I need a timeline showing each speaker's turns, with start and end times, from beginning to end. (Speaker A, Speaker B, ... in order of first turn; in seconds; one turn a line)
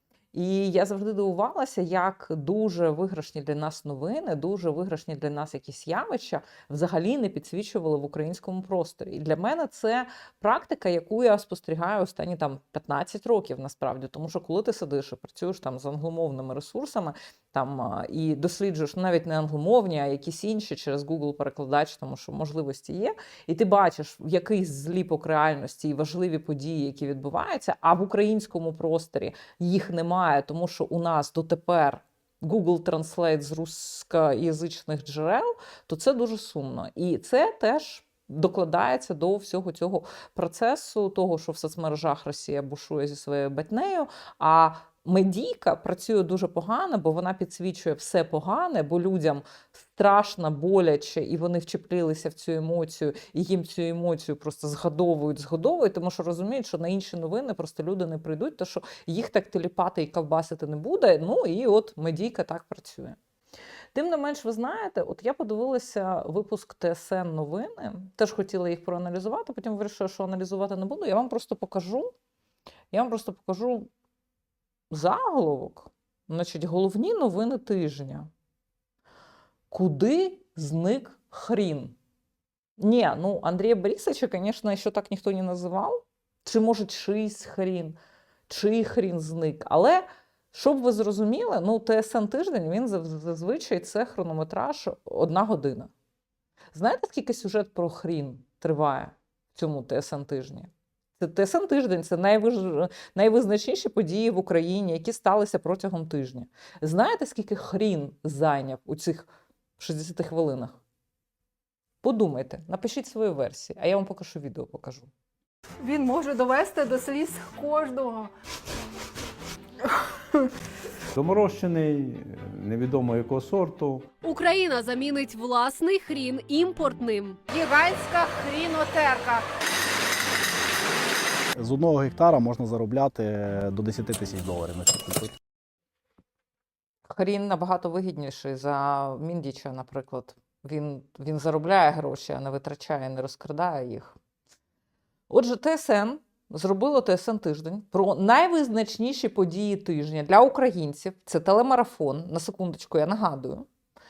Speaker A: 0.3-63.2
Speaker A: 63.9-72.1
Speaker A: 72.9-73.9
Speaker A: 74.9-78.3
Speaker A: 79.7-82.0
Speaker A: 82.8-88.0
Speaker A: 88.5-95.9
Speaker A: 96.7-110.8
Speaker A: 112.0-115.1
Speaker B: 115.8-118.3
Speaker C: 121.2-124.1
Speaker D: 124.2-127.4
Speaker B: 127.5-129.4
Speaker E: 131.6-135.4
Speaker A: 137.1-144.2
Speaker A: 145.3-153.7